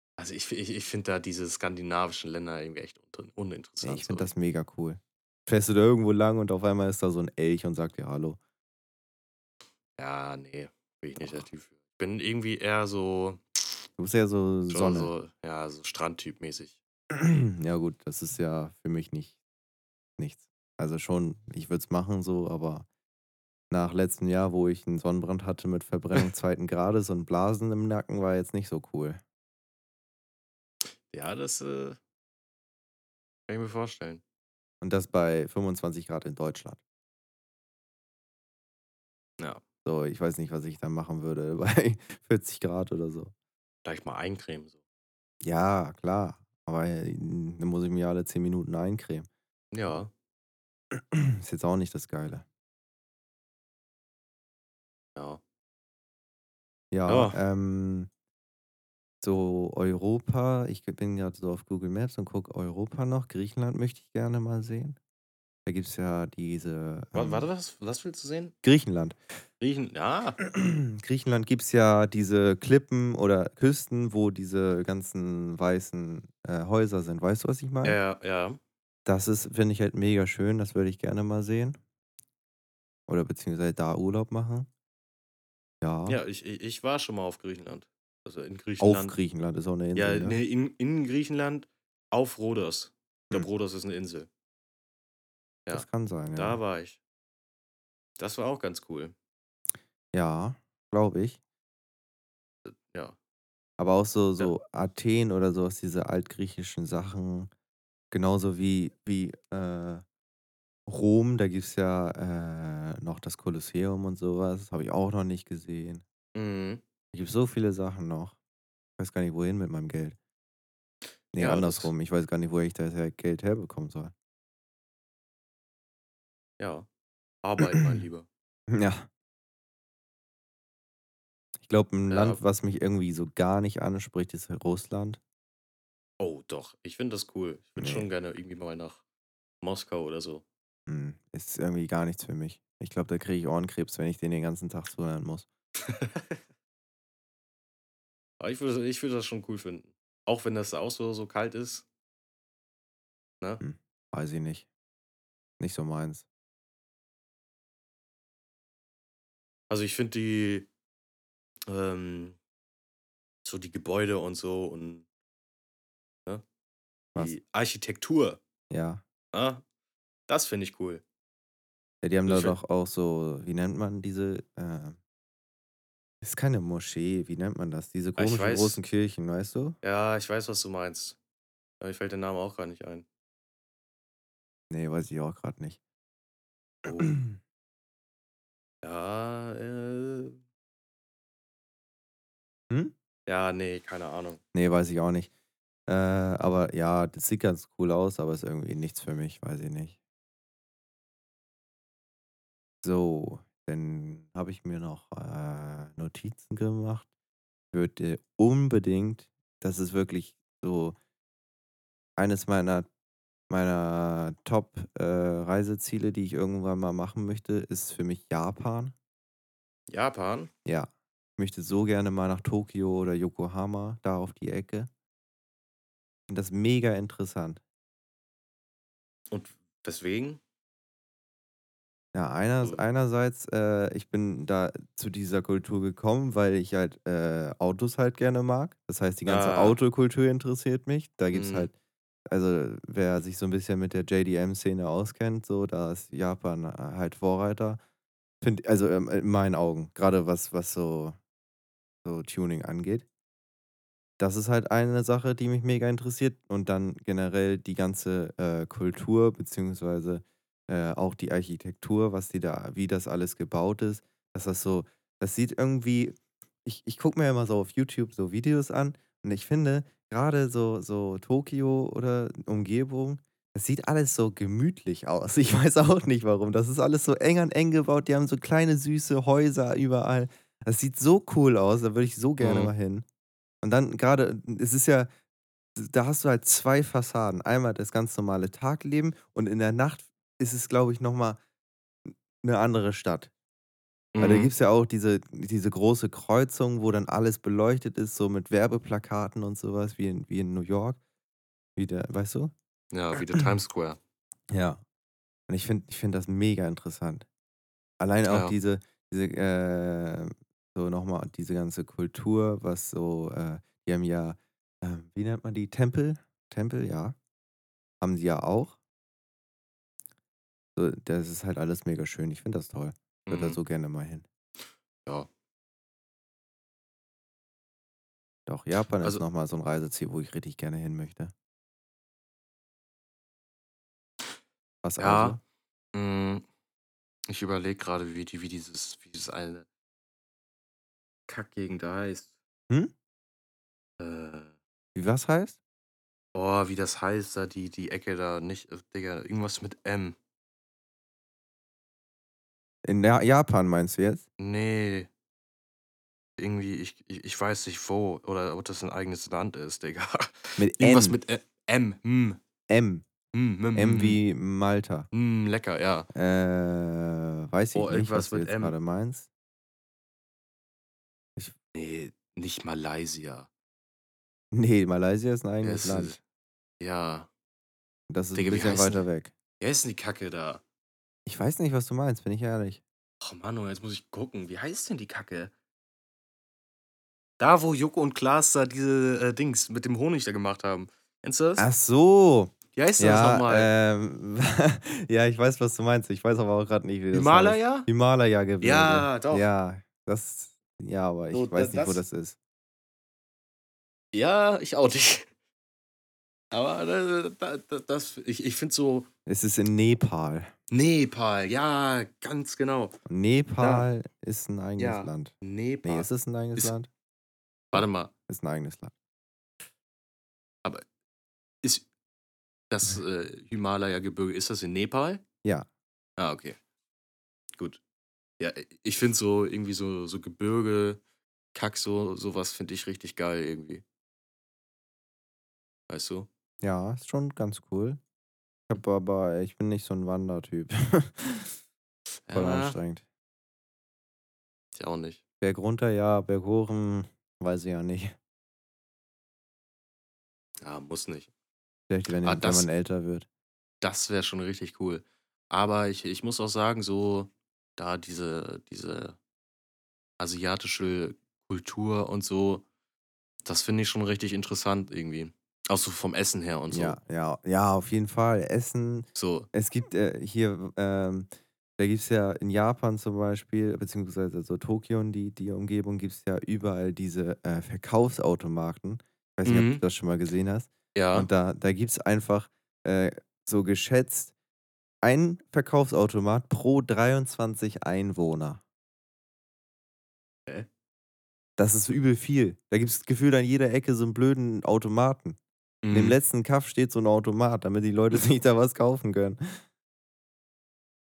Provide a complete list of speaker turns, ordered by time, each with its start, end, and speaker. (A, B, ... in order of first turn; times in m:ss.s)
0:00.2-0:04.3 A
0:03.8-0:08.4 B
0:10.0-0:13.7 A
0:11.2-0:11.4 B
0:14.0-0:15.1 B
0:14.7-0:16.8 A
0:17.1-0:19.4 B
0:20.2-0:22.9 B
0:23.7-0:29.2 B
0:31.0-0:32.0 A
0:33.5-0:34.2 A
0:34.8-0:36.8 B
0:39.8-0:43.3 B
0:43.8-0:44.8 A
0:45.4-0:49.3 B
0:49.7-0:50.1 A
0:50.9-0:52.4 B
0:55.2-0:55.4 A
0:56.9-0:58.1 B
0:57.1-0:57.4 A
0:59.2-1:05.0 B
1:05.6-1:07.5 B
1:07.1-1:08.5 A
1:08.6-1:09.2 B
1:09.6-1:10.4 A
1:10.4-1:18.0 B
1:17.8-1:18.6 A
1:19.0-1:21.8 B
1:23.1-1:24.7 B
1:25.8-1:26.2 B
1:26.1-1:29.2 A
1:28.8-1:30.4 B
1:29.9-1:34.3 A
1:35.7-1:37.0 A
1:35.7-1:36.6 B
1:38.2-1:39.1 A
1:40.1-1:41.4 B
1:42.6-1:43.2 A
1:43.8-1:47.5 B
1:48.1-1:50.0 B
1:50.9-1:56.0 B
1:56.3-1:56.8 A
1:57.1-1:58.4 B
1:59.0-2:00.2 B
2:01.3-2:04.1 B
2:01.4-2:01.9 A
2:06.6-2:06.9 A
2:07.4-2:08.3 A
2:07.6-2:08.0 B
2:08.7-2:09.1 B
2:11.6-2:15.2 B
2:12.1-2:12.4 A
2:16.2-2:19.0 A
2:17.8-2:18.1 B
2:19.6-2:20.4 A
2:20.9-2:25.5 B
2:25.9-2:26.4 A
2:28.4-2:31.8 A
2:33.6-2:34.7 B
2:35.6-2:36.2 B
2:39.7-2:40.7 A
2:41.7-2:42.4 A
2:43.4-2:45.0 A
2:47.2-2:48.4 A
2:48.7-2:49.0 B
2:49.3-2:49.6 A
2:50.3-2:51.0 A
2:52.0-2:55.0 B
2:52.2-2:52.6 A
2:56.2-2:59.8 B
2:58.2-2:58.8 A
2:59.8-3:01.2 A
3:01.8-3:03.0 A
3:04.7-3:05.8 B
3:06.8-3:07.2 A
3:07.0-3:07.4 B
3:08.8-3:10.4 A
3:13.3-3:14.4 A
3:14.5-3:15.3 B
3:15.9-3:20.0 B
3:22.8-3:27.1 B
3:27.7-3:31.0 B
3:32.2-3:32.9 B
3:33.5-3:38.9 B
3:39.9-3:40.5 A
3:40.6-3:44.9 B
3:46.3-3:47.6 B
3:49.3-3:50.4 A
3:52.1-4:01.7 B
3:59.2-3:59.8 A
4:01.3-4:01.7 A
4:02.3-4:07.8 B
4:08.4-4:11.2 B
4:12.0-4:13.0 B
4:14.2-4:43.0 B
4:42.4-4:42.7 A
4:43.6-4:45.1 B
4:45.8-4:51.4 B
4:52.0-4:53.3 B
4:54.1-4:54.5 A
4:54.2-5:01.0 B
5:01.8-5:02.5 B
5:02.9-5:04.0 A
5:04.5-5:04.8 B
5:05.5-5:07.3 B
5:08.0-5:17.2 B
5:08.3-5:08.5 A
5:18.0-5:18.8 B
5:20.8-5:24.2 B
5:23.3-5:23.6 A
5:28.5-5:31.3 B
5:34.8-5:35.4 B
5:35.0-5:35.4 A
5:35.9-5:36.4 A
5:37.3-5:39.6 A
5:41.3-5:42.3 A
5:44.0-5:44.5 A
5:44.9-5:45.6 B
5:46.3-5:50.2 A
5:52.8-5:54.2 B
5:54.4-5:55.1 A
5:56.4-6:02.4 A
6:00.6-6:01.2 B
6:02.7-6:03.0 B
6:03.3-6:04.2 A
6:03.7-6:05.1 B
6:05.1-6:06.1 A
6:06.1-6:09.3 B
6:07.7-6:08.8 A
6:11.7-6:13.5 A
6:14.5-6:16.2 B
6:15.6-6:16.2 A
6:16.8-6:17.3 A
6:18.1-6:19.3 B
6:18.3-6:19.0 A
6:19.6-6:20.6 A
6:21.2-6:22.8 B
6:23.2-6:25.5 A
6:27.4-6:31.7 A
6:31.6-6:42.4 B
6:32.7-6:33.7 A
6:37.1-6:37.9 A
6:38.6-6:39.4 A
6:41.3-6:42.0 A
6:44.1-6:45.3 A
6:46.5-6:49.1 A
6:49.2-6:50.5 B
6:50.7-6:52.9 A
6:53.1-6:56.9 B
6:53.6-6:53.9 A
6:54.8-6:56.7 A
6:57.7-6:58.1 A
6:57.7-6:58.9 B
7:02.7-7:05.2 A
7:06.2-7:06.6 A
7:08.4-7:11.0 A
7:11.5-7:13.8 A
7:15.9-7:16.3 A
7:16.6-7:18.0 B
7:18.7-7:21.5 B
7:22.3-7:22.8 A
7:22.3-7:23.0 B
7:24.7-7:25.2 A
7:25.4-7:28.2 B
7:30.6-7:31.3 A
7:31.9-7:33.3 B
7:32.2-7:32.7 A
7:33.8-7:39.2 A
7:40.2-7:42.6 A
7:43.4-7:47.0 A
7:46.7-8:04.3 B
7:49.2-7:49.5 A
7:59.4-7:59.8 A
8:00.9-8:01.3 A
8:05.0-8:08.6 B
8:11.6-8:15.4 B
8:15.8-8:16.2 A
8:15.9-8:19.6 B